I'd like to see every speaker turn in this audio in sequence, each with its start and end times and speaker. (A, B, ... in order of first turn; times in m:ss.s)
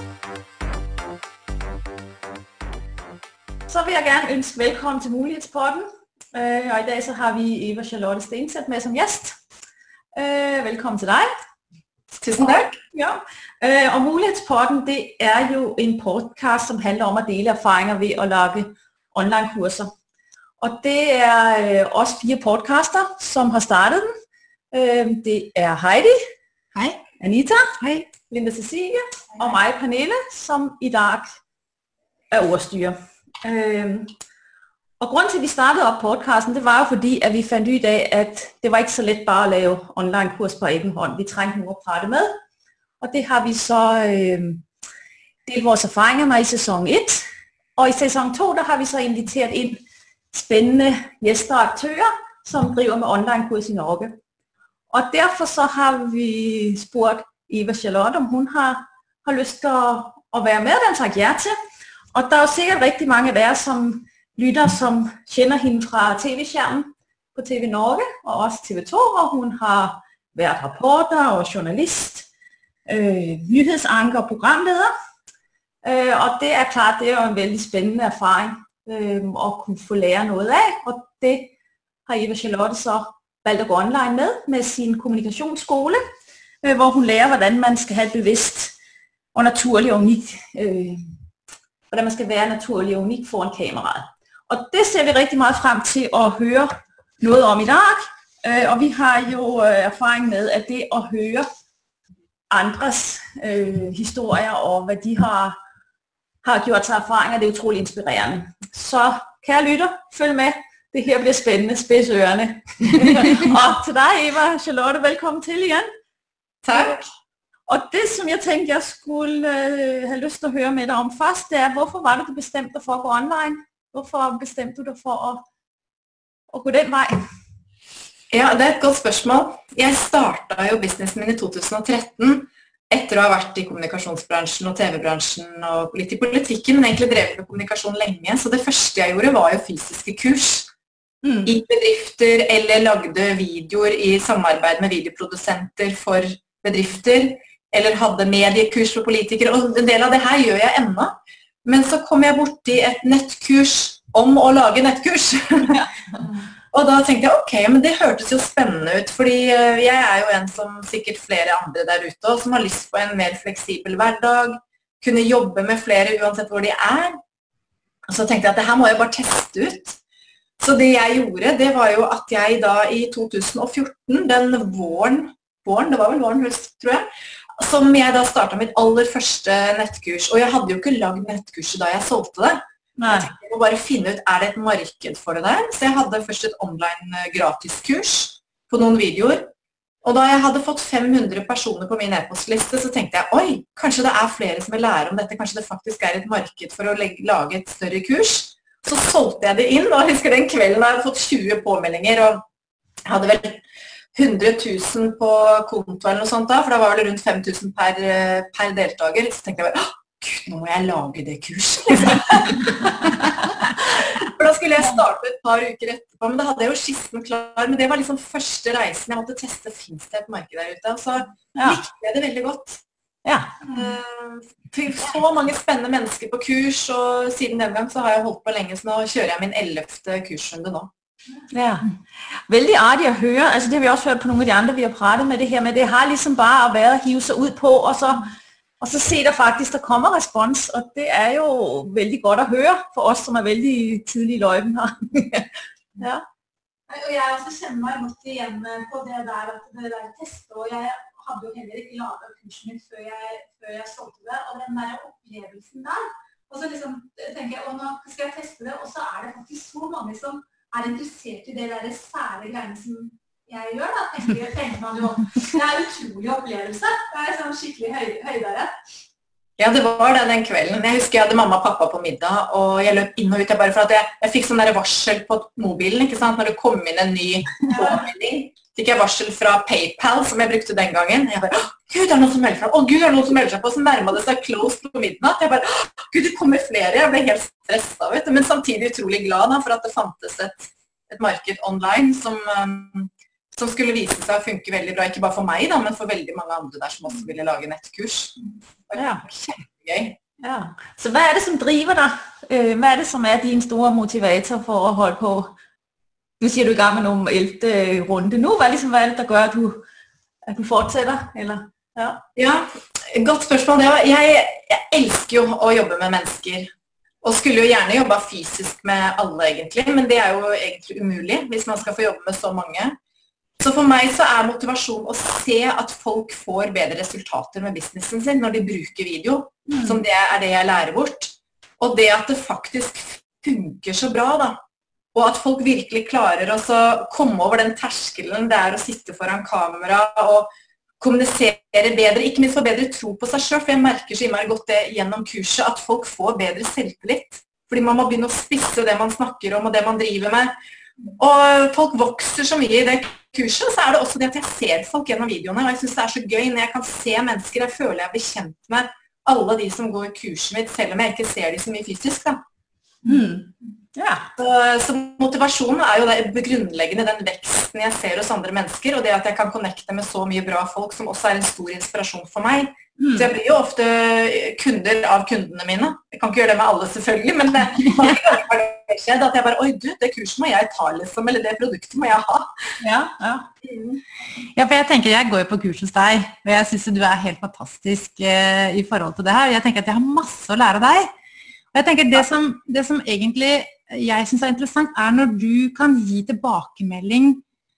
0:03.7-0:09.4 A
0:10.2-0:11.3 A
0:12.1-0:12.8 B
0:12.4-0:19.9 A
0:20.6-0:24.1 A
0:24.7-0:26.2 A
0:27.2-0:31.3 A
0:32.3-0:34.1 A
0:35.0-0:42.3 A
0:43.0-0:44.6 A
0:45.5-0:47.2 A
0:47.8-0:54.2 A
0:54.9-1:01.5 A
1:02.1-1:12.3 A
1:12.9-1:14.9 A
1:15.8-1:21.5 A
1:22.1-1:26.0 A
1:26.6-1:28.8 A
1:29.4-1:31.0 A
1:31.9-1:41.5 A
1:42.5-1:45.6 A
1:46.4-1:55.9 A
1:56.6-1:57.1 B
1:56.7-1:57.0 A
1:57.7-2:05.4 A
2:06.5-2:07.2 A
2:08.3-2:20.7 B
2:21.2-2:21.5 A
2:21.5-2:35.8 B
2:36.7-2:47.2 B
2:48.1-2:50.0 B
2:50.6-2:57.0 B
2:57.6-3:09.5 B
3:03.0-3:03.3 A
3:10.0-3:22.4 B
3:23.1-3:23.6 B
3:24.2-3:33.3 B
3:33.9-3:42.8 B
3:41.6-3:41.8 A
3:43.2-3:43.5 A
3:43.7-3:50.9 B
3:51.5-4:06.2 A
4:06.9-4:28.7 C
4:29.6-4:58.4 B
4:58.9-5:00.2 B
4:59.0-4:59.2 A
5:00.4-5:05.5 A
5:06.4-5:09.8 A
5:10.5-5:12.2 A
5:12.4-5:16.7 B
5:17.2-5:23.0 B
5:23.6-5:34.6 B
5:29.7-5:30.0 A
5:35.1-5:50.6 B
5:51.2-6:02.4 B
6:03.0-6:04.3 A
6:04.4-6:22.7 B
6:13.0-6:13.3 A
6:22.8-6:23.5 A
6:23.6-6:24.0 B
6:24.6-6:31.1 D
6:31.7-6:37.4 D